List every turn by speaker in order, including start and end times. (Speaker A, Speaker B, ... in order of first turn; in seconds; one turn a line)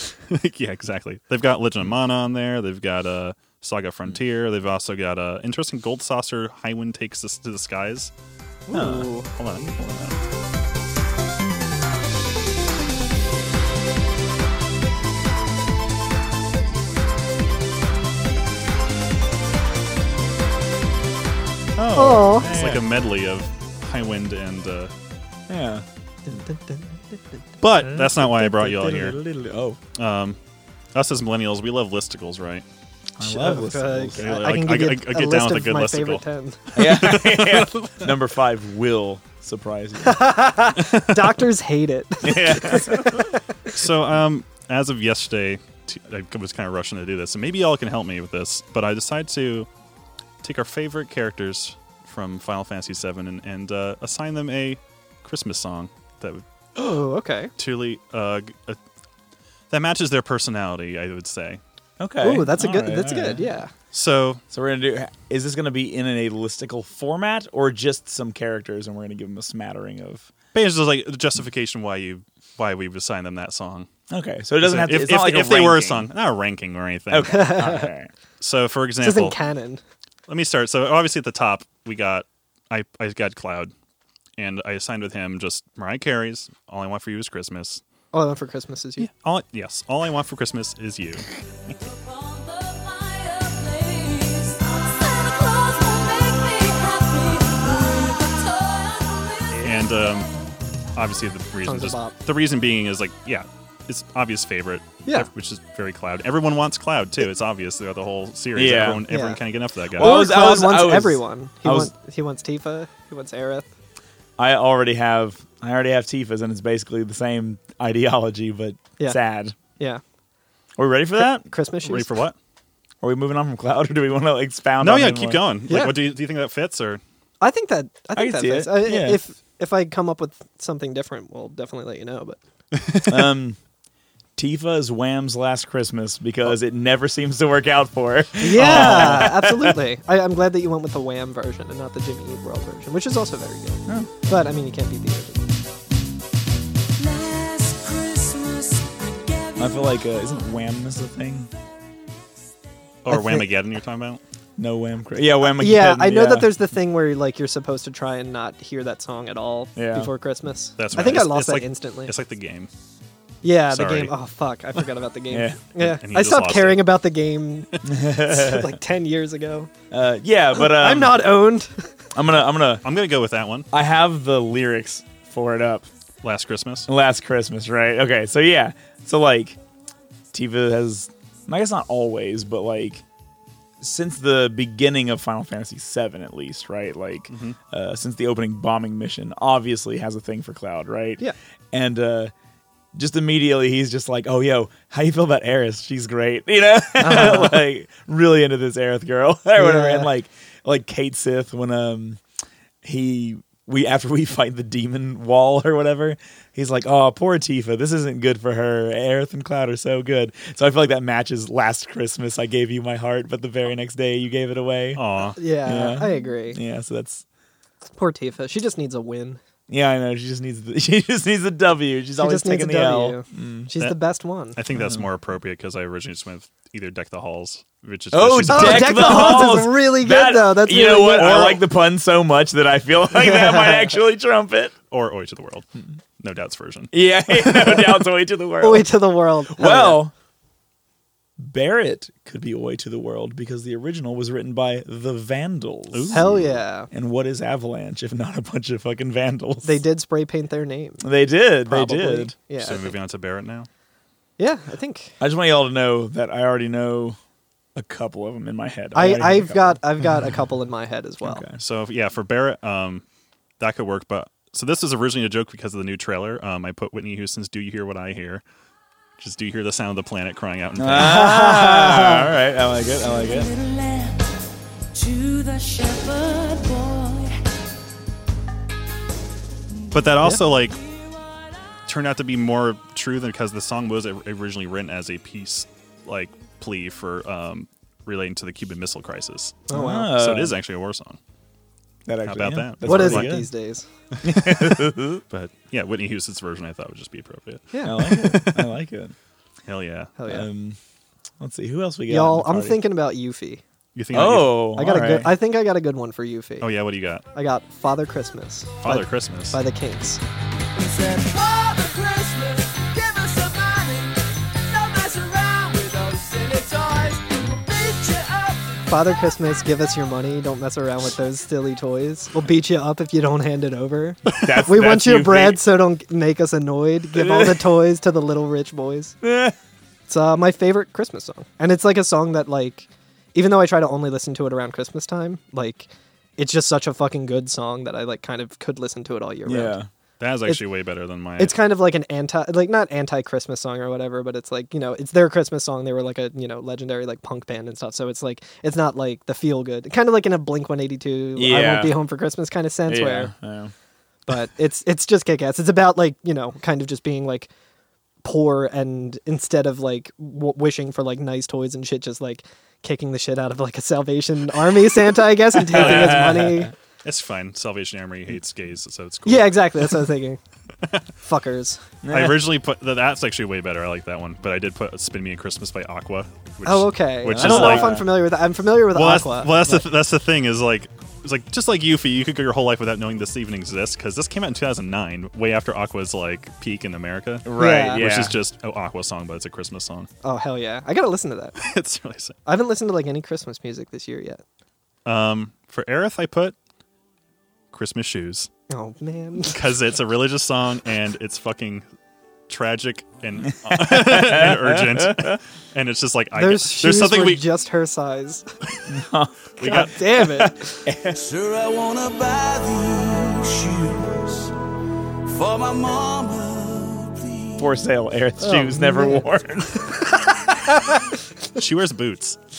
Speaker A: 0.3-8.1
Speaker B: 8.7-9.3
Speaker C: 8.7-9.1
Speaker A: 9.3-10.2
Speaker A: 21.8-24.9
Speaker C: 21.9-22.8
Speaker B: 21.9-22.5
Speaker C: 25.5-25.9
Speaker B: 26.2-27.4
Speaker A: 27.6-29.2
Speaker C: 27.9-29.8
Speaker A: 29.9-30.4
Speaker A: 30.9-32.6
Speaker C: 33.2-34.2
Speaker B: 33.2-36.8
Speaker A: 34.1-38.1
Speaker C: 36.7-40.3
Speaker B: 40.0-43.3
Speaker A: 40.8-41.3
Speaker C: 42.2-43.3
Speaker A: 43.7-49.7
Speaker A: 50.4-56.4
Speaker B: 56.8-57.5
Speaker A: 57.6-58.8
Speaker A: 59.7-61.6
Speaker C: 62.0-63.5
Speaker B: 62.2-63.7
Speaker A: 63.9-64.4
Speaker C: 64.5-70.3
Speaker A: 70.5-73.9
Speaker C: 74.1-76.1
Speaker A: 74.6-77.6
Speaker C: 77.1-78.1
Speaker B: 77.3-77.9
Speaker A: 78.4-79.3
Speaker B: 79.0-79.8
Speaker A: 80.3-83.7
Speaker A: 84.4-87.8
Speaker B: 88.1-89.1
Speaker A: 89.0-91.3
Speaker D: 91.8-99.6
Speaker A: 99.6-100.3
Speaker A: 101.0-110.2
Speaker B: 101.6-102.1
Speaker C: 108.5-109.1
Speaker B: 109.1-109.4
Speaker C: 109.9-111.9
Speaker B: 110.0-113.7
Speaker C: 114.4-119.5
Speaker B: 119.0-120.0
Speaker C: 120.8-121.5
Speaker B: 121.4-122.2
Speaker A: 121.8-122.3
Speaker C: 123.0-125.4
Speaker A: 124.8-127.0
Speaker B: 125.7-126.0
Speaker B: 127.4-132.4
Speaker C: 128.1-129.2
Speaker C: 133.1-133.6
Speaker C: 134.3-139.8
Speaker B: 138.4-145.5
Speaker A: 138.5-139.3
Speaker D: 147.0-149.9
Speaker C: 149.6-151.5
Speaker A: 153.0-154.2
Speaker C: 153.1-153.4
Speaker C: 154.6-156.5
Speaker B: 155.4-162.1
Speaker C: 159.8-160.1
Speaker A: 160.8-162.7
Speaker B: 163.4-169.7
Speaker A: 163.7-164.1
Speaker C: 165.3-165.6
Speaker A: 165.8-166.8
Speaker C: 167.8-168.7
Speaker C: 169.9-171.3
Speaker B: 170.5-171.7
Speaker C: 172.1-172.8
Speaker A: 172.8-173.7
Speaker C: 173.7-175.9
Speaker A: 176.2-176.9
Speaker C: 176.9-179.6
Speaker C: 180.3-183.0
Speaker C: 183.8-192.3
Speaker A: 187.3-187.6
Speaker C: 192.9-202.2
Speaker B: 197.0-197.6
Speaker B: 199.6-200.1
Speaker C: 202.8-215.0
Speaker A: 214.9-215.4
Speaker B: 215.4-216.6
Speaker C: 215.6-217.2
Speaker B: 217.9-219.4
Speaker C: 219.7-223.7
Speaker B: 222.2-224.6
Speaker A: 224.6-229.4
Speaker C: 224.7-225.0
Speaker C: 228.1-234.7
Speaker B: 228.5-231.6
Speaker B: 233.1-233.9
Speaker A: 234.9-235.7
Speaker A: 236.2-236.9
Speaker C: 236.9-238.9
Speaker B: 237.6-237.9
Speaker B: 238.6-240.0
Speaker C: 239.5-240.1
Speaker C: 241.4-249.8
Speaker A: 245.9-246.3
Speaker B: 246.1-246.9
Speaker B: 249.6-251.0
Speaker C: 251.0-252.3
Speaker B: 251.7-252.9
Speaker A: 252.6-253.7
Speaker B: 254.4-255.1
Speaker C: 255.2-257.2
Speaker C: 257.7-259.8
Speaker B: 258.9-261.4
Speaker C: 261.2-261.6
Speaker A: 261.6-263.0
Speaker A: 263.6-268.4
Speaker A: 269.2-271.4
Speaker C: 270.8-273.5
Speaker B: 271.0-272.3
Speaker D: 273.1-274.2
Speaker D: 274.9-277.4
Speaker A: 279.9-280.8
Speaker A: 281.9-291.2
Speaker B: 289.7-290.0
Speaker C: 289.7-290.6
Speaker C: 292.1-293.5
Speaker A: 292.2-293.3
Speaker B: 292.8-293.9
Speaker A: 294.2-294.6
Speaker C: 294.2-295.2
Speaker A: 295.3-298.5
Speaker B: 297.7-298.6
Speaker C: 297.8-299.1
Speaker A: 299.6-300.1
Speaker B: 300.2-300.4
Speaker C: 300.3-300.8
Speaker C: 301.4-302.8
Speaker B: 302.1-303.6
Speaker A: 303.9-304.7
Speaker C: 304.1-305.3
Speaker B: 304.7-306.7
Speaker A: 306.6-307.2
Speaker B: 307.3-310.2
Speaker A: 308.8-309.6
Speaker E: 310.8-318.8
Speaker B: 318.9-329.1
Speaker C: 324.3-325.6
Speaker C: 327.1-327.7
Speaker C: 329.2-329.5
Speaker B: 330.1-339.8
Speaker C: 339.4-339.9
Speaker A: 340.2-341.6
Speaker B: 341.4-353.3
Speaker C: 351.4-352.0
Speaker C: 352.9-353.7
Speaker B: 354.3-357.5
Speaker B: 358.2-366.7
Speaker C: 365.6-366.7
Speaker A: 367.0-369.9
Speaker B: 369.2-370.4
Speaker B: 371.2-371.8
Speaker C: 372.0-372.5
Speaker A: 372.1-378.0
Speaker B: 376.6-379.8
Speaker C: 377.3-378.1
Speaker A: 378.9-390.1
Speaker C: 387.4-388.4
Speaker B: 387.6-388.1
Speaker B: 390.2-391.6
Speaker A: 391.6-392.4
Speaker B: 392.4-394.4
Speaker A: 395.0-396.5
Speaker A: 397.7-398.5
Speaker B: 398.7-399.6
Speaker A: 399.4-401.8
Speaker A: 402.5-407.4
Speaker C: 403.5-405.4
Speaker B: 406.3-408.5
Speaker C: 408.9-411.2
Speaker A: 409.6-409.9
Speaker B: 409.6-410.8
Speaker E: 411.1-414.5
Speaker E: 415.2-417.6
Speaker C: 417.6-419.8
Speaker B: 418.4-421.0
Speaker A: 421.5-422.4